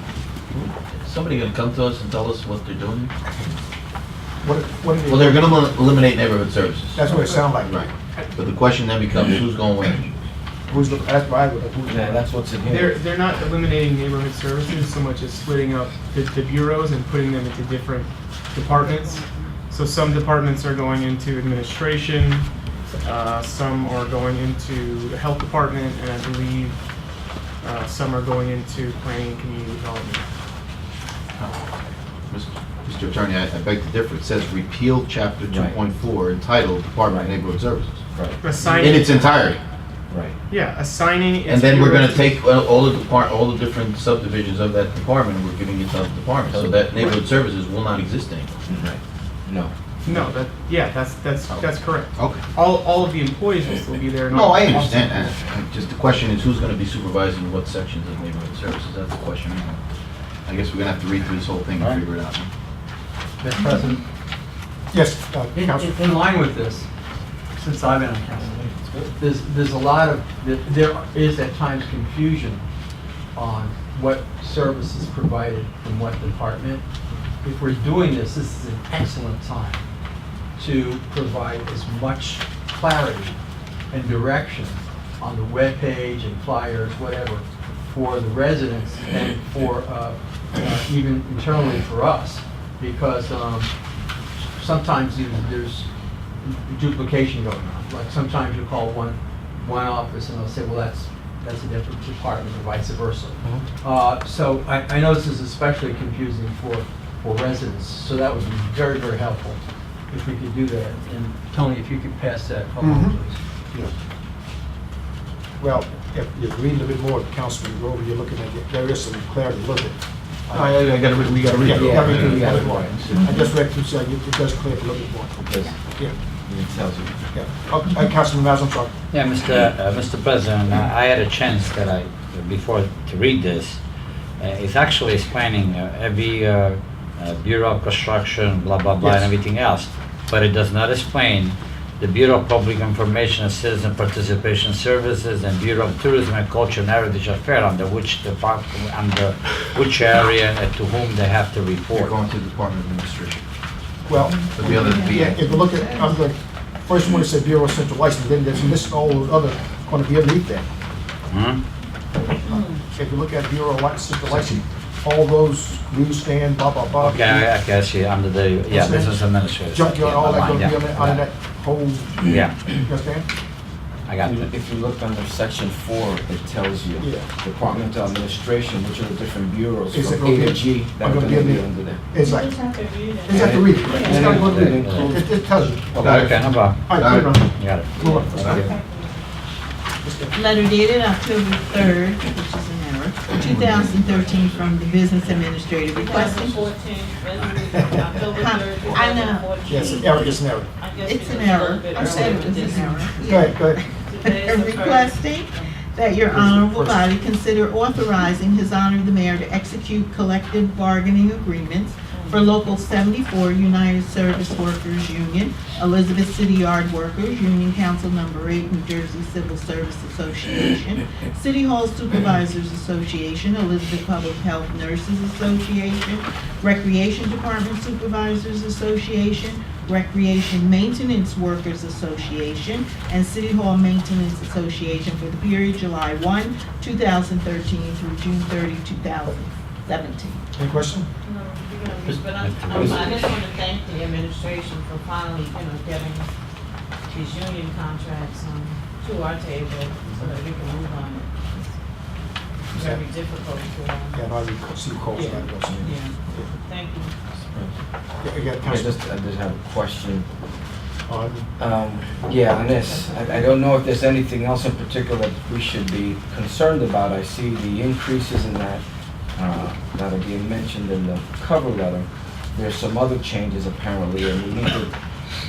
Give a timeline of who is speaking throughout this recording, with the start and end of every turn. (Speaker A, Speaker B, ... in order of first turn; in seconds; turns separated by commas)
Speaker A: 0.5-3.1, Speaker B: 4.4-5.7, Speaker A: 5.1-10.1, Speaker B: 6.9-7.8, Speaker C: 7.2-7.5, Speaker B: 10.7-12.2, Speaker D: 11.8-13.0, Speaker C: 12.7-26.8, Speaker E: 18.8-19.6, Speaker C: 27.6-30.2, Speaker A: 31.3-31.7, Speaker A: 32.3-38.0, Speaker D: 35.5-35.8, Speaker D: 37.0-37.4, Speaker D: 38.1-38.8, Speaker C: 38.4-39.4, Speaker A: 38.8-39.6, Speaker D: 40.1-40.4, Speaker C: 40.5-42.4, Speaker A: 41.5-48.6, Speaker D: 46.5-46.9, Speaker D: 48.7-49.7, Speaker C: 50.0-55.1, Speaker A: 51.5-52.5, Speaker A: 54.3-59.8, Speaker A: 60.4-62.5, Speaker F: 63.4-64.0, Speaker B: 64.9-66.0, Speaker F: 65.5-66.9, Speaker F: 67.5-68.6, Speaker D: 68.5-69.1, Speaker F: 69.2-72.6, Speaker F: 73.3-76.8, Speaker F: 77.4-79.8, Speaker F: 80.6-83.3, Speaker F: 83.9-93.7, Speaker F: 94.5-95.9, Speaker F: 96.4-109.6, Speaker F: 110.1-113.3, Speaker B: 112.8-113.2, Speaker B: 115.6-120.7, Speaker A: 120.5-123.3, Speaker B: 121.6-126.1, Speaker D: 121.7-123.0, Speaker D: 125.5-125.8, Speaker D: 126.5-127.2, Speaker B: 127.3-128.9, Speaker G: 129.1-133.8, Speaker G: 134.4-152.2, Speaker B: 139.0-139.3, Speaker A: 152.0-153.4, Speaker B: 154.1-160.6, Speaker A: 154.6-155.3, Speaker G: 161.3-161.6, Speaker B: 162.5-167.5, Speaker E: 162.5-162.8, Speaker G: 167.0-171.2, Speaker B: 168.7-173.3, Speaker G: 172.2-172.6, Speaker G: 174.1-174.5, Speaker D: 174.2-182.0, Speaker B: 177.0-177.3, Speaker B: 179.9-182.6, Speaker E: 182.6-183.1, Speaker B: 183.2-186.1, Speaker D: 183.3-185.2, Speaker G: 184.3-185.2, Speaker G: 185.9-188.7, Speaker A: 186.0-187.4, Speaker B: 186.8-188.6, Speaker E: 188.7-189.0, Speaker B: 190.0-190.4, Speaker H: 190.3-196.7, Speaker A: 193.5-194.7, Speaker E: 195.9-203.1, Speaker H: 198.3-199.8, Speaker B: 199.7-200.7, Speaker H: 201.0-240.4, Speaker B: 202.0-202.3, Speaker B: 203.2-203.8, Speaker E: 204.0-205.7, Speaker B: 206.3-207.0, Speaker E: 212.1-212.4, Speaker B: 240.6-241.1, Speaker E: 241.2-246.3, Speaker G: 242.3-243.3, Speaker E: 247.1-251.7, Speaker B: 252.7-253.0, Speaker E: 252.7-254.2, Speaker B: 254.1-256.5, Speaker E: 255.1-257.1, Speaker B: 258.2-258.9, Speaker D: 258.6-260.2, Speaker B: 261.1-261.5, Speaker D: 261.6-268.8, Speaker E: 262.8-263.4, Speaker D: 269.3-274.9